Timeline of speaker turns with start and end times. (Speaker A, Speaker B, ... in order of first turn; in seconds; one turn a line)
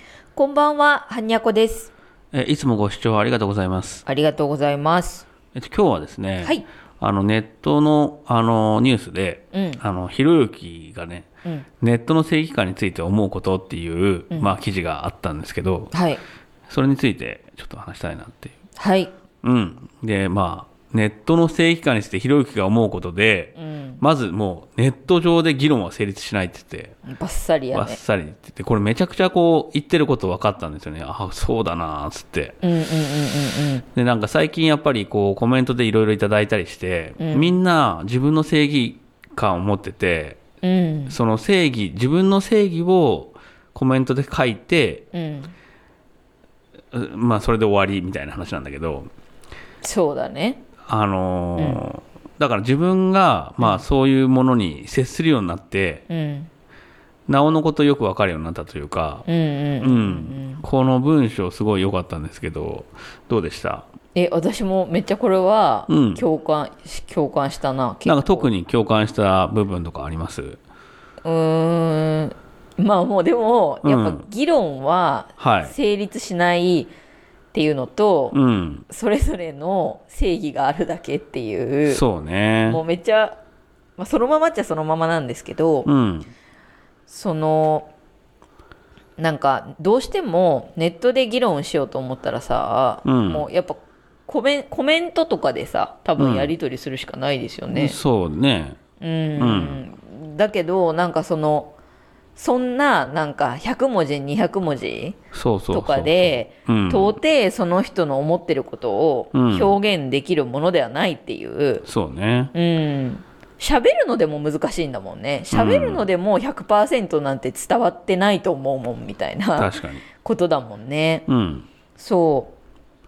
Speaker A: 0.3-1.9
Speaker B: 2.3-4.0
Speaker A: 4.0-5.2
Speaker B: 5.5-11.3
Speaker A: 9.5-9.8
Speaker B: 11.8-15.9
Speaker A: 15.9-16.2
Speaker B: 16.7-18.5
Speaker A: 18.8-19.1
Speaker B: 19.4-26.9
Speaker A: 23.6-24.0
Speaker A: 27.1-28.0
Speaker B: 27.7-32.6
Speaker A: 32.6-33.8
Speaker B: 33.9-40.4
Speaker A: 37.2-37.5
Speaker A: 40.6-41.1
Speaker B: 41.1-45.0
Speaker A: 45.1-45.5
Speaker B: 46.9-49.1
Speaker A: 49.8-50.6
Speaker B: 50.9-56.0
Speaker A: 51.6-51.8
Speaker A: 56.1-56.5
Speaker B: 57.3-59.2
Speaker A: 59.2-60.6
Speaker B: 59.8-63.9
Speaker A: 64.1-68.5
Speaker B: 65.9-66.2
Speaker B: 68.0-70.6
Speaker A: 71.2-76.9
Speaker B: 73.8-74.2
Speaker B: 75.4-75.7
Speaker A: 77.5-78.4
Speaker B: 78.3-78.8
Speaker A: 78.9-82.0
Speaker B: 81.8-82.8
Speaker A: 82.7-83.4
Speaker A: 84.0-85.9
Speaker B: 85.8-86.3
Speaker A: 87.1-87.9
Speaker A: 89.2-98.0
Speaker B: 93.0-93.5
Speaker B: 96.2-96.5
Speaker B: 97.7-98.8
Speaker A: 99.0-101.7
Speaker B: 99.4-99.8
Speaker A: 102.3-105.2
Speaker B: 105.3-107.2
Speaker A: 105.7-111.8
Speaker B: 109.3-109.8
Speaker B: 111.8-112.5
Speaker A: 112.5-121.2
Speaker B: 115.5-116.0
Speaker B: 119.6-120.0
Speaker B: 121.3-121.7
Speaker A: 122.0-122.5